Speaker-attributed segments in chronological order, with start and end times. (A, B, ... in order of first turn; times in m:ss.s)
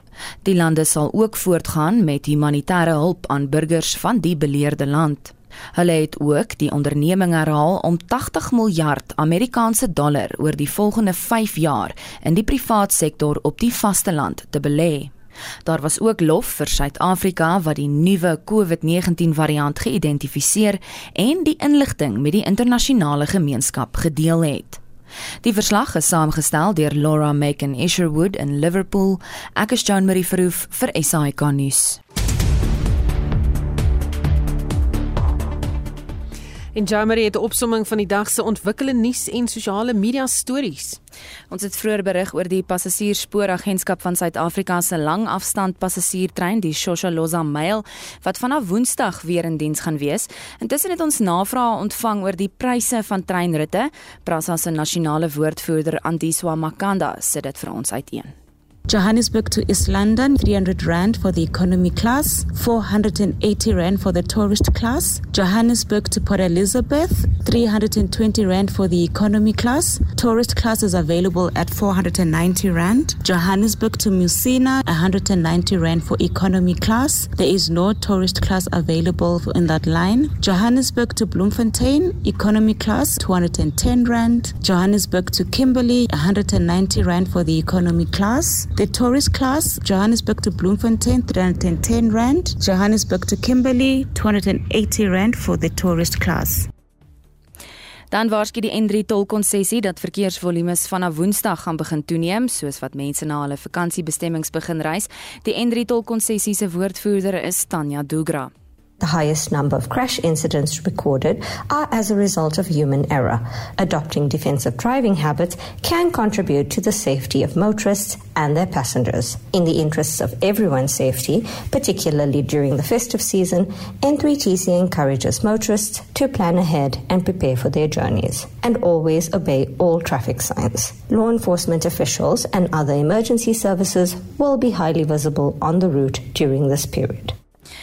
0:00.4-0:15.1 A
0:15.6-0:24.8 A
0:25.4-0:32.0 A
0:36.7-0:41.0 B
0:41.5-0:58.3 A
0:58.9-1:36.7 C
1:38.1-1:48.5 A
1:49.0-2:17.3 D